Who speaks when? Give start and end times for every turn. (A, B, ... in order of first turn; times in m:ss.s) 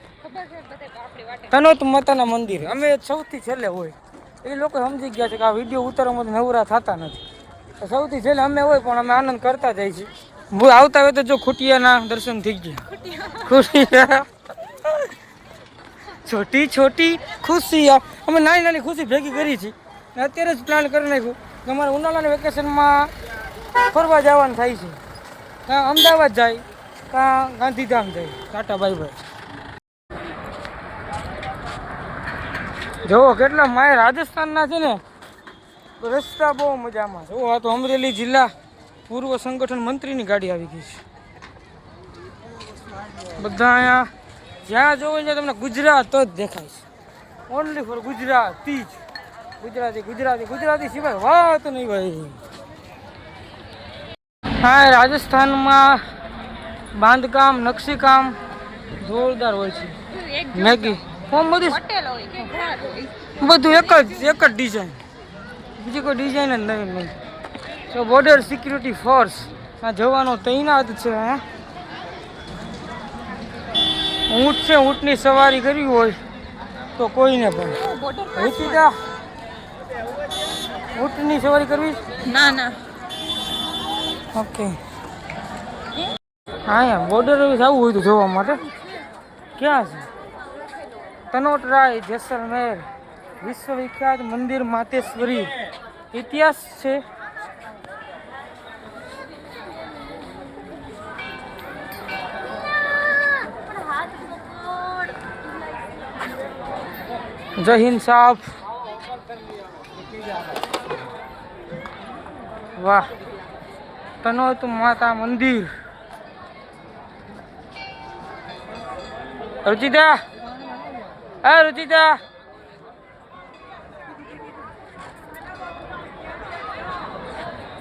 0:00.2-0:01.5 A
0:01.5-0:07.2 B
0:07.8-0:12.8 B
0:12.9-0:13.6 A
0:13.4-0:14.3 B
0:14.8-0:15.1 B
0:16.2-0:23.1 B
0:23.9-0:25.0 B
0:25.6-0:29.2 B
0:33.0-0:35.0 B
0:36.0-0:38.5 B
0:39.1-0:41.0 B
0:43.4-0:44.1 B
0:44.6-0:46.8 B
0:47.5-0:49.0 B
0:49.6-0:52.4 B
0:54.6-0:56.0 B
0:56.9-0:58.4 B
0:59.0-1:00.0 B
1:00.1-1:04.2 A
1:00.5-1:01.8 B
1:03.4-1:05.0 B
1:05.8-1:07.1 B
1:07.9-1:11.4 B
1:14.3-1:16.2 B
1:17.0-1:17.8 B
1:17.8-1:18.9 A
1:18.3-1:19.0 B
1:20.9-1:22.0 B
1:22.2-1:22.8 A
1:24.3-1:24.8 B
1:26.6-1:28.6 B
1:29.6-1:30.1 B
1:31.3-1:32.8 B
1:33.4-1:35.5 B
1:36.1-1:37.0 B
1:47.6-1:48.5 B
1:52.8-1:53.1 B
1:54.2-1:55.7 B
1:59.6-2:00.2 B
2:01.4-2:02.2 B